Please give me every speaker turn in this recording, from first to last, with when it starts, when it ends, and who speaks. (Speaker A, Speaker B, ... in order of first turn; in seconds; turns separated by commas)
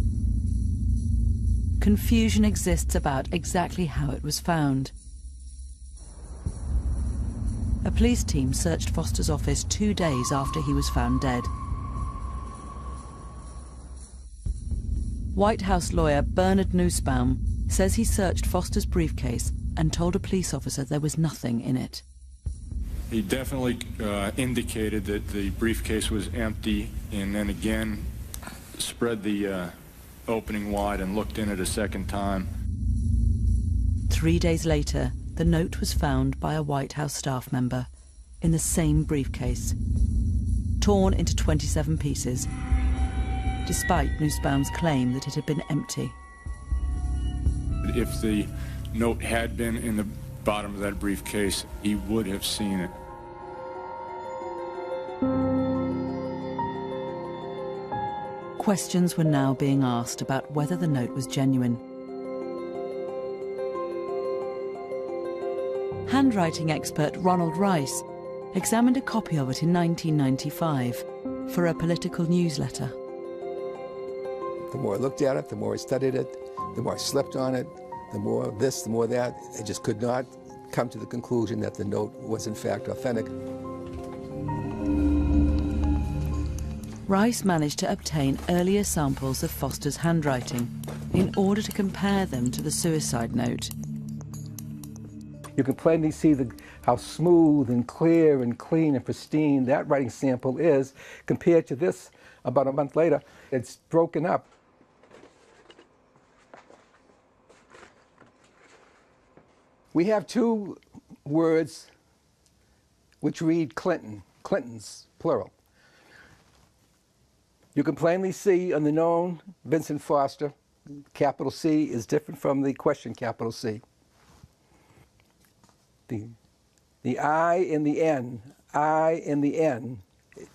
Speaker A: 1.8-4.9, Speaker A: 7.8-11.5, Speaker A: 15.3-22.0, Speaker B: 23.1-28.1, Speaker B: 28.8-32.5, Speaker A: 34.1-37.9, Speaker A: 38.4-39.8, Speaker A: 40.8-42.5, Speaker A: 43.6-46.2, Speaker B: 47.8-52.9, Speaker A: 58.6-61.8, Speaker A: 66.1-72.9, Speaker C: 74.7-83.3, Speaker A: 87.1-93.7, Speaker C: 95.6-104.5, Speaker C: 109.9-111.9, Speaker C: 113.2-115.5, Speaker C: 117.8-120.5, Speaker C: 121.1-123.8, Speaker C: 126.1-126.3, Speaker C: 127.0-130.0